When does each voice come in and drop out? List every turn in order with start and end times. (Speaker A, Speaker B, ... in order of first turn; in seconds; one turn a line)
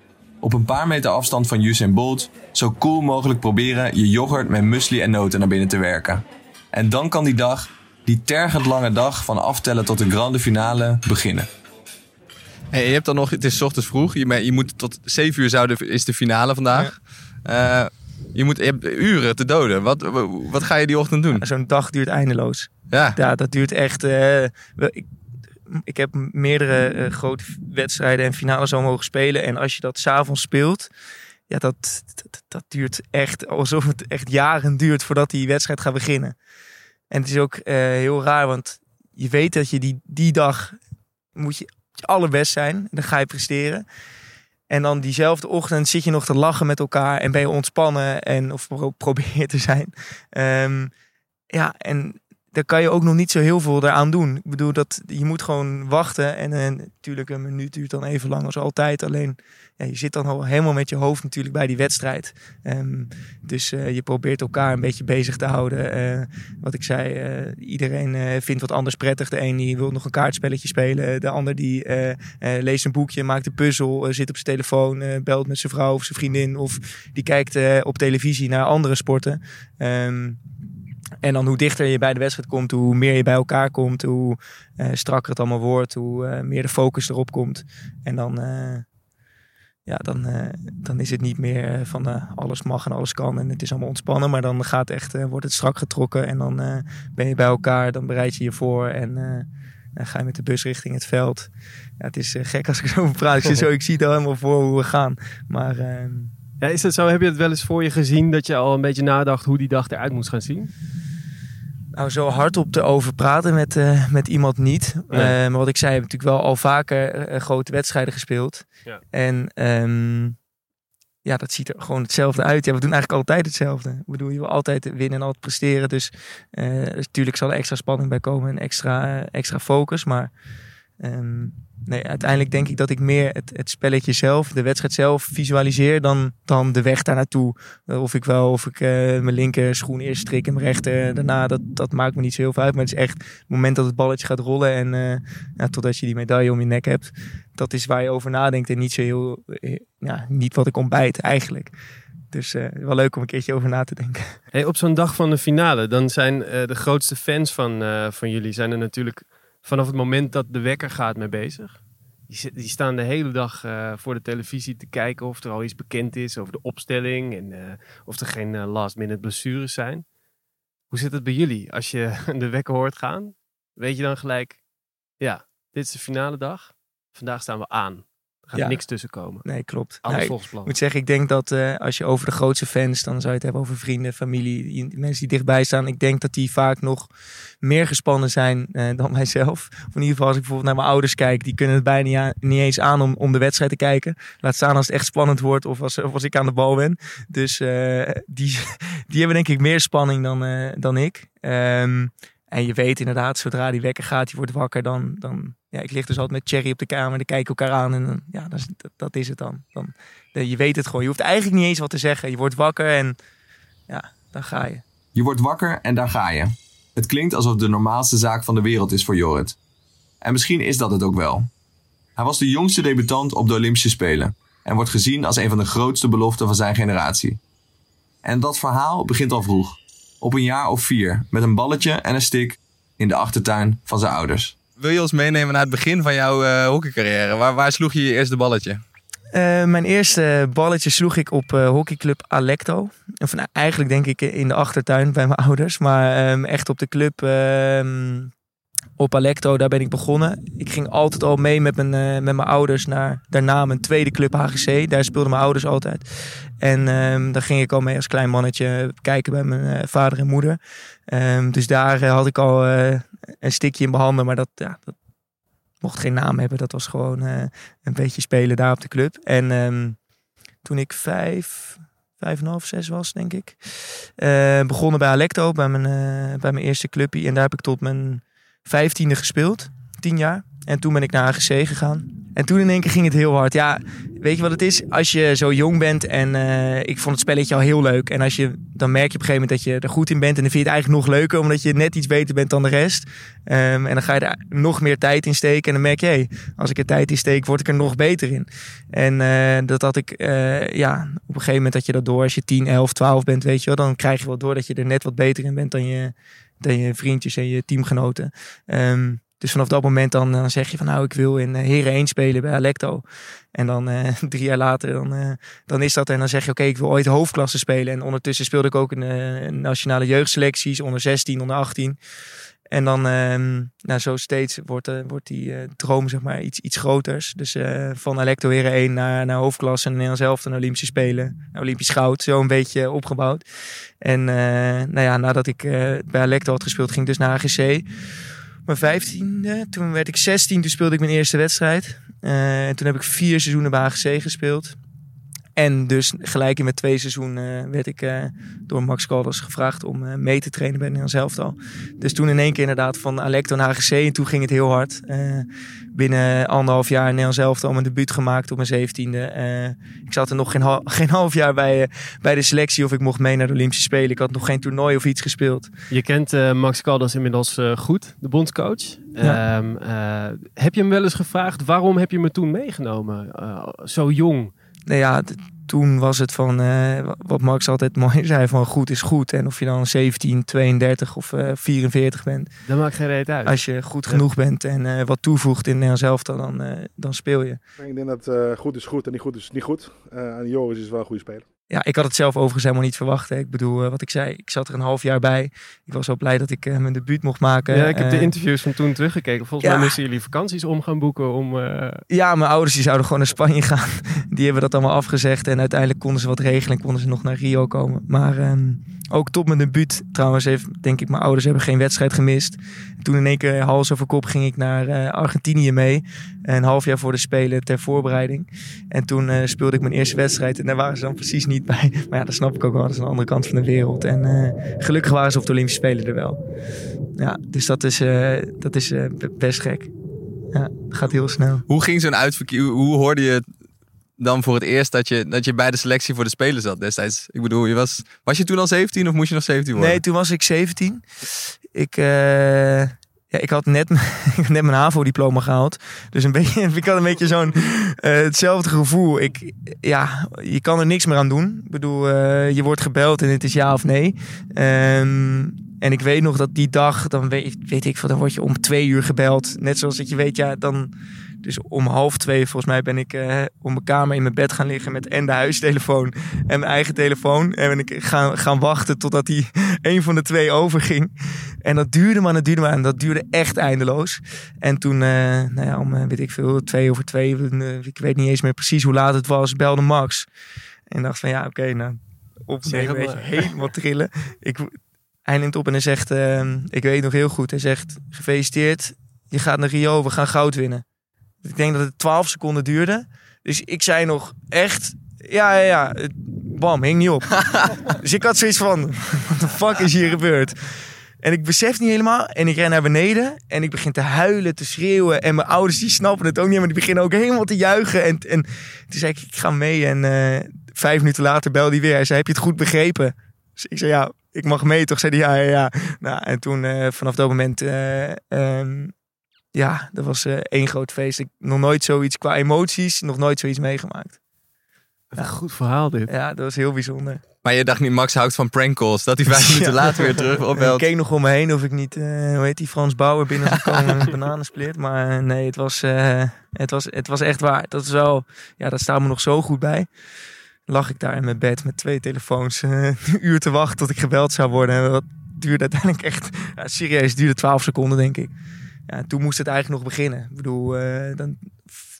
Speaker A: 0.4-11.5
Speaker B: 12.7-16.9
Speaker B: 17.4-21.4
Speaker C: 21.3-25.1
Speaker B: 22.9-23.2
Speaker C: 25.7-30.9
Speaker C: 31.5-36.4
Speaker C: 37.1-40.8
Speaker C: 41.4-43.8
Speaker C: 44.7-50.9
Speaker C: 51.5-80.4
Speaker C: 81.2-88.8
Speaker C: 89.8-106.3
Speaker D: 106.6-110.7
Speaker C: 111.9-120.4
Speaker D: 115.1-115.3
Speaker C: 121.2-130.3
Speaker C: 131.0-151.7
Speaker C: 152.3-154.4
Speaker D: 154.5-170.1
Speaker D: 170.9-174.6
Speaker D: 175.2-179.5
Speaker C: 178.5-187.1
Speaker D: 180.0-180.7
Speaker C: 187.6-213.2
Speaker C: 213.9-214.8
Speaker A: 215.1-219.6
Speaker A: 220.2-221.5
Speaker A: 222.2-227.4
Speaker A: 228.2-234.6
Speaker B: 234.8-238.8
Speaker C: 239.3-248.3
Speaker C: 249.0-256.0
Speaker C: 256.6-264.9
Speaker C: 265.8-270.0
Speaker C: 270.6-273.6
Speaker C: 274.2-322.0
Speaker C: 322.7-333.4
Speaker C: 334.0-337.8
Speaker C: 338.6-344.8
Speaker C: 345.6-365.7
Speaker D: 365.9-374.5
Speaker C: 374.9-382.5
Speaker D: 382.6-384.2
Speaker C: 383.4-387.6
Speaker E: 387.8-391.4
Speaker C: 391.7-398.3
Speaker D: 397.7-402.0
Speaker C: 399.6-399.9
Speaker C: 402.1-426.4
Speaker C: 427.2-429.9
Speaker C: 430.5-431.6
Speaker B: 431.7-433.4
Speaker B: 434.2-440.0
Speaker C: 439.7-441.1
Speaker C: 441.7-460.9
Speaker C: 461.4-471.1
Speaker C: 471.6-480.3
Speaker C: 480.9-484.7
Speaker D: 482.6-483.6
Speaker C: 485.2-490.8
Speaker C: 491.4-500.5
Speaker C: 501.2-518.9
Speaker C: 519.5-524.2
Speaker D: 525.1-526.1
Speaker C: 526.1-527.2
Speaker B: 527.4-530.9
Speaker C: 530.5-539.9
Speaker C: 540.7-548.3
Speaker C: 548.9-551.5